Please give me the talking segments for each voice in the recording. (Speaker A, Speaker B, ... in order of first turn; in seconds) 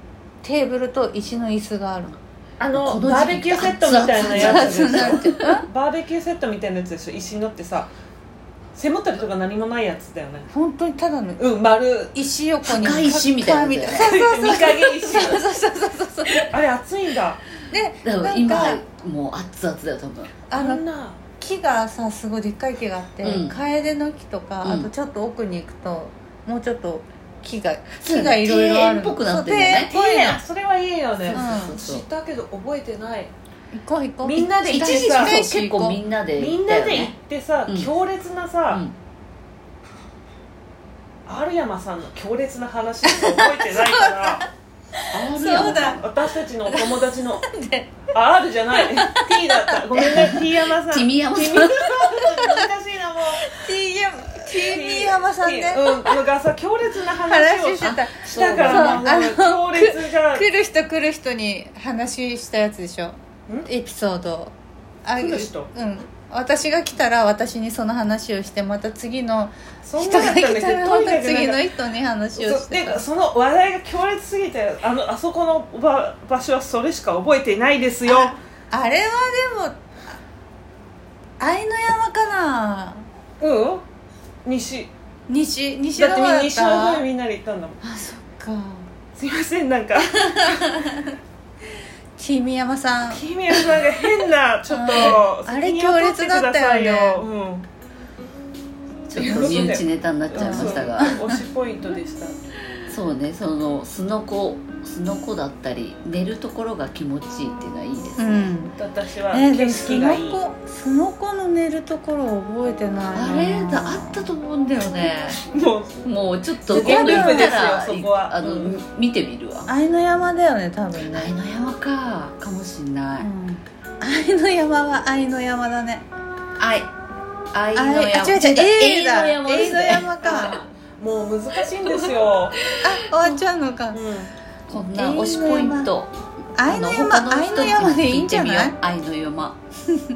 Speaker A: 0.4-2.2, 4.2-5.7, 10.5-11.4, 12.1-16.5, 17.7-18.8, 20.5-20.8, 21.4-30.4, 31.3-31.8, 33.7-36.0, 43.1-44.5, 45.1-46.0, 46.7-48.0, 48.8-49.8, 52.3-52.6, 53.5-56.2, 57.2-64.5, 65.0-73.0, 78.0-80.2, 81.4-83.0, 85.3-87.0, 87.8-88.9, 90.2-91.1, 92.2-93.2, 94.7-97.2, 99.2-99.6, 100.3-101.3, 108.2-108.8, 109.3-115.3, 116.7-117.6, 119.7-121.3, 123.2-126.1, 127.8-130.6, 132.8-134.0, 134.7-135.9, 136.6-138.8
Speaker B: 2.6-7.9, 8.8-10.5, 11.4-12.2, 13.9-15.4, 16.3-17.5, 20.5-21.2, 29.9-33.3, 34.2-35.4, 36.4-38.9, 41.3-44.5, 45.4-47.5, 48.1-53.6, 54.4-60.5, 65.2-65.7, 69.8-71.6, 72.3-78.4, 83.4-83.8, 84.5-84.9, 86.0-87.8, 89.2-90.8, 93.1-97.7, 99.2-102.4, 108.8-110.4, 115.4-116.0, 116.7-118.8, 130.2-132.6, 133.9-134.3
Speaker C: 2.7-5.6, 12.6-14.2, 18.0-20.4, 23.2-23.6, 24.6-24.9, 28.0-29.9, 31.2-32.0, 34.6-37.1, 38.7-39.0, 45.1-46.0, 50.0-52.0, 57.8-59.1, 99.1-101.1, 102.9-108.5, 113.1-115.4, 116.0-119.7, 121.1-123.3, 126.6-126.9, 127.5-130.5, 132.7-133.4, 134.7-139.6